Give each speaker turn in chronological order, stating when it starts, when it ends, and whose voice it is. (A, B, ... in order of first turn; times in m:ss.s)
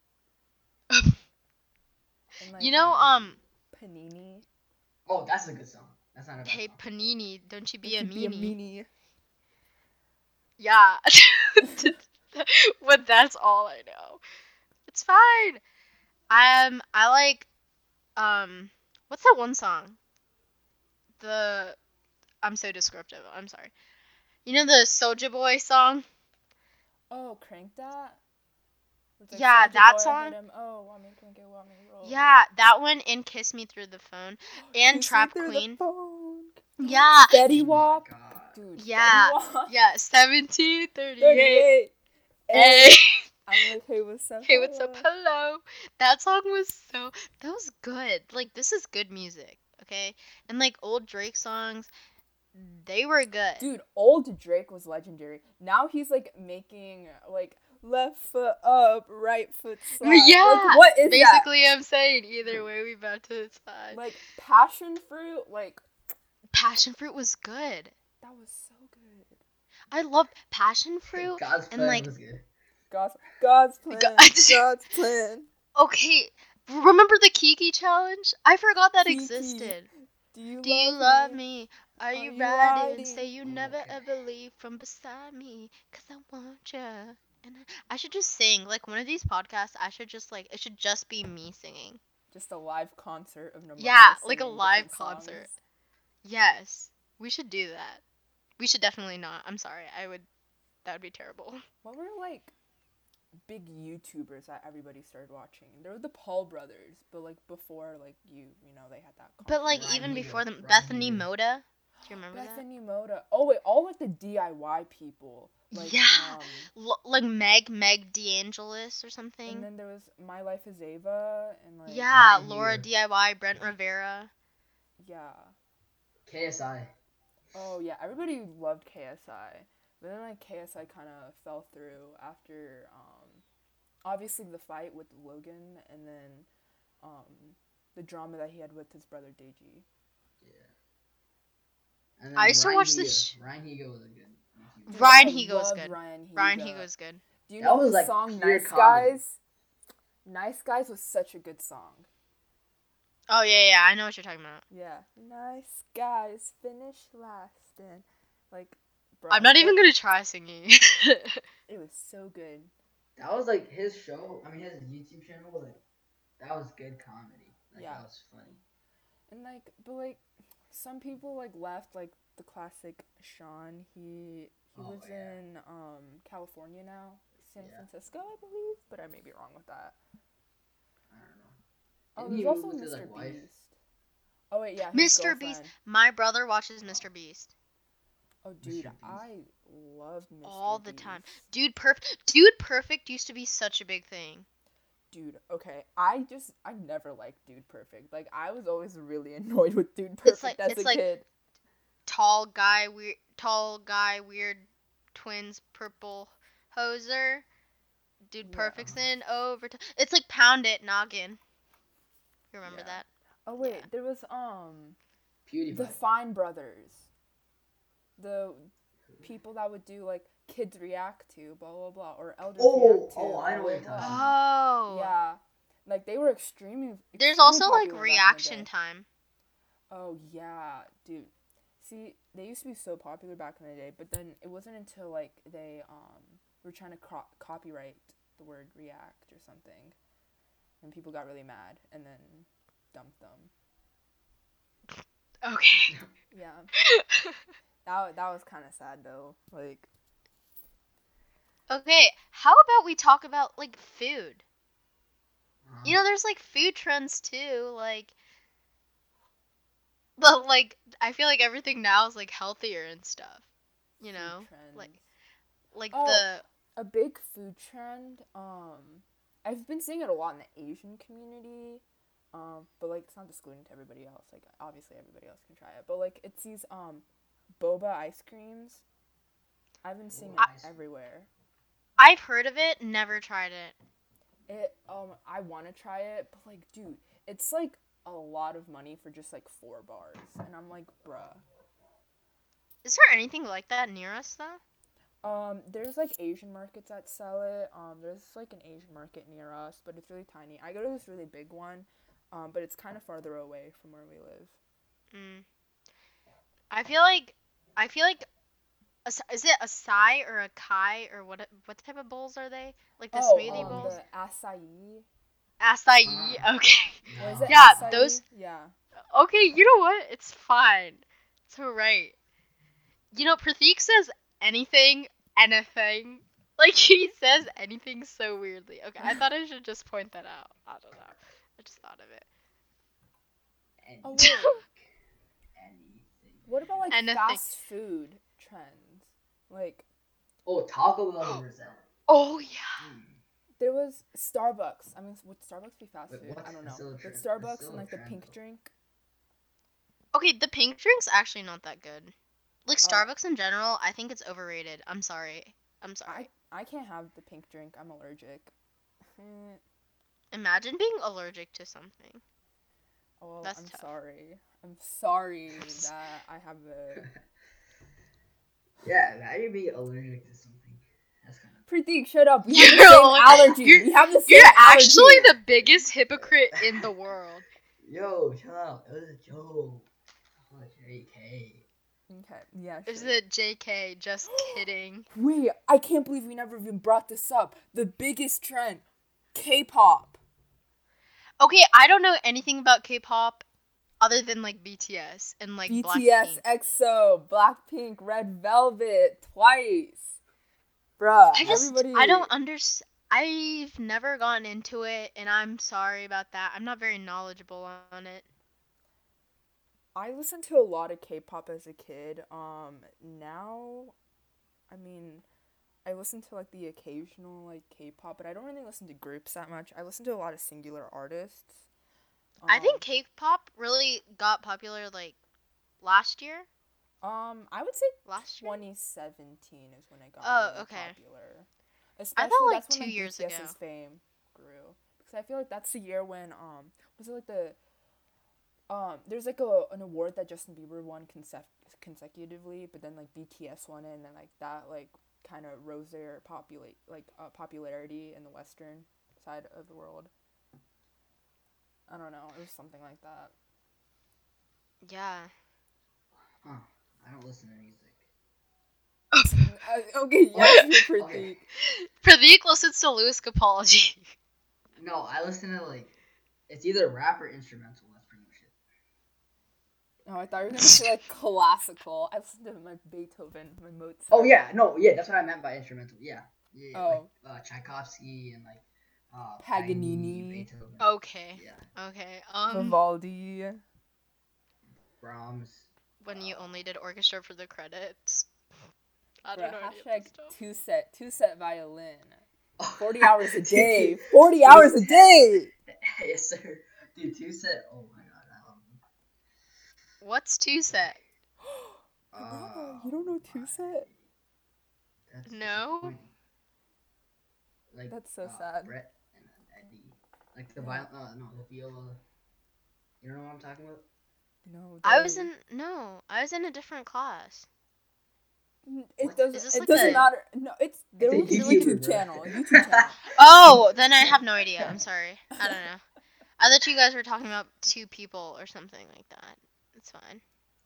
0:00.9-0:01.2 A
0:02.4-0:03.0 B
0:02.6-0:03.4 A
0:02.8-0:03.2 C
0:03.7-0:04.5 B
0:05.1-0:06.8 C
0:06.4-0:08.6 A
0:07.8-0:08.9 B
0:10.6-0:14.2 A
0:11.6-0:11.9 B
0:14.9-0:15.6 A
0:16.3-0:17.5 A
0:18.2-0:20.0 A
0:21.2-0:21.8 A
0:22.4-0:23.7 A
0:24.4-0:26.1 A
0:27.1-0:28.2 B
0:29.2-0:32.4 B
0:29.3-0:30.4 A
0:32.0-0:35.8 A
0:34.7-0:39.7 B
0:36.8-0:37.4 A
0:37.5-0:38.6 C
0:38.8-0:41.7 A
0:41.2-0:41.9 B
0:42.5-0:45.1 B
0:42.5-0:43.2 A
0:44.4-0:51.9 A
0:52.5-0:53.6 A
0:53.6-1:01.5 B
1:00.0-1:04.0 A
1:03.9-1:05.8 B
1:06.5-1:07.9 A
1:08.2-1:09.4 B
1:09.9-1:12.1 A
1:11.1-1:12.5 C
1:12.9-1:15.5 B
1:13.9-1:14.6 A
1:15.8-1:19.9 A
1:19.0-1:21.4 B
1:20.6-1:32.0 A
1:22.1-1:23.3 B
1:23.4-1:24.1 C
1:32.3-1:35.6 B
1:33.8-1:35.5 A
1:36.2-1:38.0 A
1:38.6-1:40.3 A
1:40.8-1:41.6 A
1:41.8-1:42.5 B
1:43.5-1:50.1 B
1:49.4-1:52.6 A
1:49.7-1:51.3 C
1:52.3-1:56.7 B
1:55.7-1:59.7 A
1:59.5-2:02.1 B
2:01.9-2:04.3 A
2:02.1-2:02.9 C
2:05.0-2:05.5 B
2:06.3-2:06.9 C
2:07.5-2:13.4 B
2:14.0-2:16.5 B
2:17.0-2:19.9 B
2:20.4-2:20.7 C
2:22.2-2:25.3 C
2:22.4-2:23.3 A
2:24.9-2:27.2 A
2:24.9-2:26.9 B
2:27.5-2:29.4 B
2:27.6-2:29.2 C
2:30.2-2:32.1 B
2:33.3-2:34.6 A
2:34.7-2:39.8 B
2:39.3-2:41.4 A
2:41.7-2:42.7 B
2:43.2-2:45.8 C
2:46.4-2:48.6 C
2:47.8-2:48.1 B
2:49.3-3:00.0 B
2:54.8-2:55.4 C
2:57.6-2:57.9 C
3:01.1-3:01.6 C
3:02.2-3:03.5 C
3:02.2-3:03.7 B
3:04.5-3:05.7 B
3:04.9-3:07.5 A
3:08.4-3:11.4 B
3:08.6-3:09.2 C
3:10.4-3:14.5 A
3:15.1-3:21.3 B
3:20.2-3:21.0 A
3:22.1-3:27.4 A
3:28.3-3:31.4 A
3:28.4-3:29.0 B
3:32.5-3:33.1 A
3:32.6-3:33.0 C
3:33.5-3:35.0 B
3:33.6-3:33.9 A
3:35.5-3:36.0 C
3:35.7-3:37.1 B
3:38.2-3:38.7 B
3:39.2-3:44.2 B
3:42.6-3:44.4 C
3:44.0-3:45.2 A
3:44.9-3:48.7 B
3:47.2-3:49.1 A
3:49.9-4:00.0 B
4:00.8-4:03.5 B
4:05.4-4:06.0 A
4:06.3-4:06.7 B
4:06.8-4:07.4 A
4:07.8-4:09.9 B
4:11.7-4:14.4 A
4:15.6-4:16.0 C
4:15.8-4:18.1 A
4:20.2-4:23.5 A
4:24.0-4:24.9 A
4:24.0-4:25.0 B
4:25.7-4:26.4 A
4:25.9-4:37.1 B
4:37.6-4:38.8 B
4:39.8-4:41.3 B
4:40.1-4:40.8 C
4:42.0-4:43.8 A
4:44.5-4:51.4 B
4:52.8-4:54.6 A
4:55.2-5:04.6 B
5:05.1-5:05.5 A
5:06.7-5:08.3 A
5:09.0-5:14.0 A
5:13.1-5:15.1 B
5:13.5-5:14.0 C
5:15.6-5:18.2 A
5:16.0-5:16.5 C
5:17.1-5:18.0 C
5:17.2-5:18.7 B
5:19.1-5:22.2 A
5:23.1-5:32.3 A
5:33.8-5:34.9 C
5:34.0-5:34.6 B
5:34.2-5:34.6 A
5:35.6-5:36.5 C
5:36.5-5:39.9 B
5:36.9-5:37.5 A
5:40.5-5:41.8 C
5:42.1-5:42.8 A
5:42.8-5:43.2 C
5:43.6-5:48.7 B
5:46.1-5:48.3 C
5:50.1-5:52.1 A
5:52.7-5:56.3 A
5:52.8-5:53.1 B
5:56.1-5:58.5 B
5:59.1-5:59.6 B
6:00.3-6:02.2 A
6:03.2-6:07.1 B
6:03.4-6:03.8 A
6:08.8-6:11.7 C
6:11.7-6:15.4 B
6:12.5-6:17.4 A
6:15.6-6:16.9 C
6:17.8-6:19.9 C
6:20.5-6:21.6 C
6:22.1-6:23.2 B
6:22.9-6:25.1 A
6:24.3-6:30.2 B
6:31.4-6:33.4 A
6:34.0-6:36.4 A
6:35.7-6:40.1 B
6:41.0-6:42.3 B
6:41.3-6:48.3 A
6:50.0-6:54.0 B
6:54.7-6:55.2 B
6:55.8-7:01.6 B
7:02.4-7:02.9 B
7:02.5-7:05.2 A
7:05.8-7:06.5 A
7:07.0-7:17.6 B
7:08.1-7:08.6 A
7:10.2-7:11.0 A
7:12.2-7:13.6 A
7:18.7-7:30.1 B
7:31.9-7:33.3 B
7:34.8-7:35.3 A
7:36.4-7:38.1 C
7:39.1-7:39.5 A
7:39.3-7:41.4 B
7:40.3-7:41.3 C
7:41.7-7:44.1 A
7:44.8-7:45.9 C
7:46.5-7:48.5 C
7:50.1-7:54.5 B
7:54.1-8:01.6 C
7:56.7-7:57.1 B
7:59.4-8:00.5 B
8:00.8-8:02.8 A
8:02.5-8:03.6 B
8:05.0-8:06.6 C
8:06.0-8:08.3 A
8:09.2-8:10.3 A
8:09.3-8:12.2 B
8:12.6-8:18.8 C
8:12.8-8:15.5 B
8:20.0-8:21.0 A
8:21.4-8:23.9 B
8:22.1-8:24.0 C
8:25.1-8:26.1 C
8:25.3-8:26.0 A
8:27.7-8:32.0 C
8:27.9-8:28.8 B
8:30.6-8:30.9 B
8:33.0-8:33.8 C
8:34.4-8:35.3 B
8:34.8-8:37.5 A
8:38.6-8:43.0 B
8:39.0-8:40.1 C
8:39.3-8:40.1 A
8:41.0-8:44.8 C
8:41.3-8:41.7 A
8:43.1-8:45.8 A
8:46.4-8:50.2 A